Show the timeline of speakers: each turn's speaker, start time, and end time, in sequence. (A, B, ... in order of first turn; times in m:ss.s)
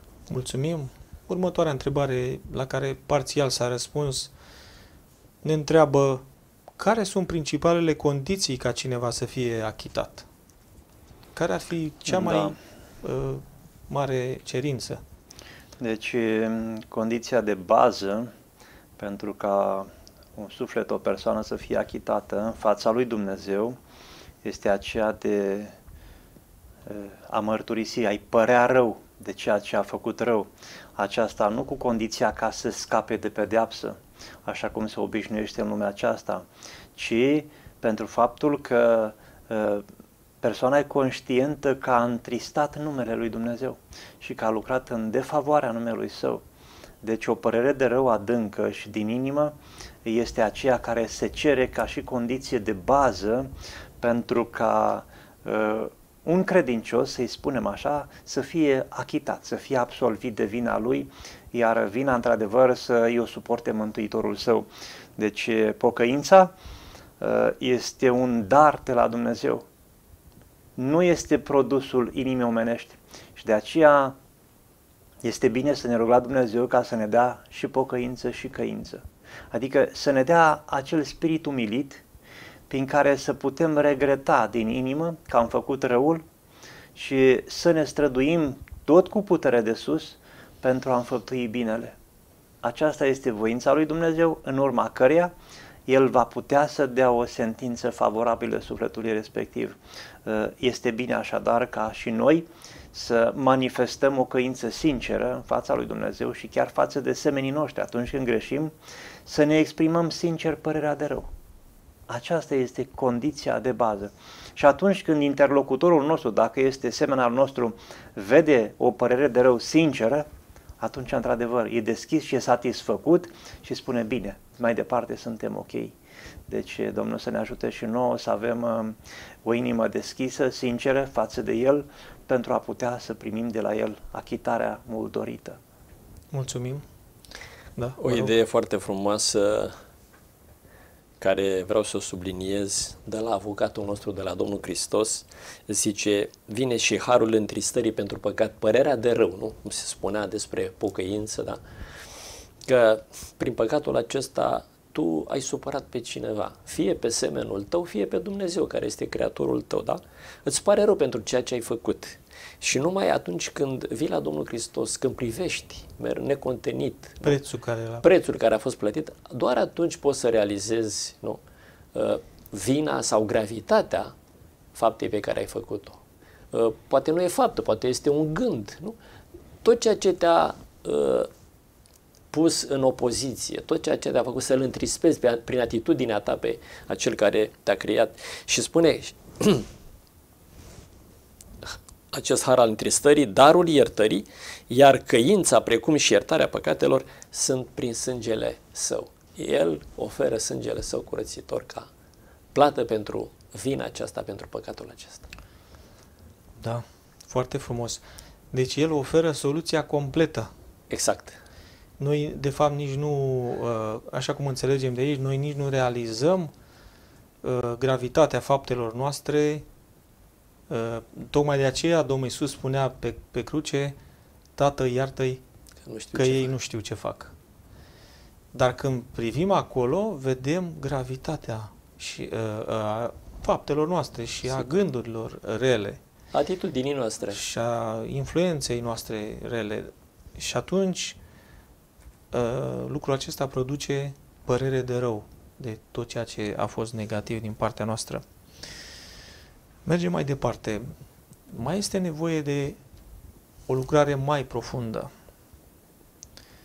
0:00.3-0:04.3 A
0:05.4-0:06.2 A
0:06.8-0:10.3 A
0:11.4-0:15.0 A
0:12.1-0:12.6 B
0:15.8-0:18.3 B
0:19.0-0:23.8 B
0:24.4-0:25.8 B
0:26.9-0:36.4 B
0:37.0-0:39.8 B
0:40.4-0:46.4 B
0:47.0-1:06.5 B
1:07.2-1:09.6 B
1:10.8-1:14.2 B
1:15.2-1:22.0 B
1:22.7-1:26.2 B
1:27.0-1:32.0 B
1:32.6-1:35.3 B
1:35.9-1:48.7 B
1:49.3-1:51.3 B
1:52.1-2:00.3 B
2:00.8-2:05.9 B
2:06.5-2:15.6 B
2:16.3-2:16.8 A
2:17.8-2:18.3 A
2:18.0-2:19.7 C
2:21.2-2:31.6 C
2:32.7-2:47.4 C
2:47.2-2:48.0 A
2:48.0-2:51.4 C
2:51.9-2:54.1 C
2:54.8-2:56.0 C
2:56.5-2:59.0 C
2:59.6-3:01.3 C
3:02.3-3:09.7 C
3:11.6-3:21.9 C
3:22.5-3:25.3 C
3:26.6-3:30.5 A
3:30.9-3:31.4 C
3:32.0-3:36.5 A
3:37.4-3:39.6 A
3:40.7-3:44.0 A
3:44.6-3:45.4 A
3:45.8-3:46.5 C
3:46.1-3:47.3 A
3:48.5-3:56.0 A
3:56.3-3:57.4 C
3:57.3-4:01.2 A
4:02.3-4:08.2 A
4:09.8-4:10.9 A
4:11.5-4:12.8 A
4:13.7-4:15.1 A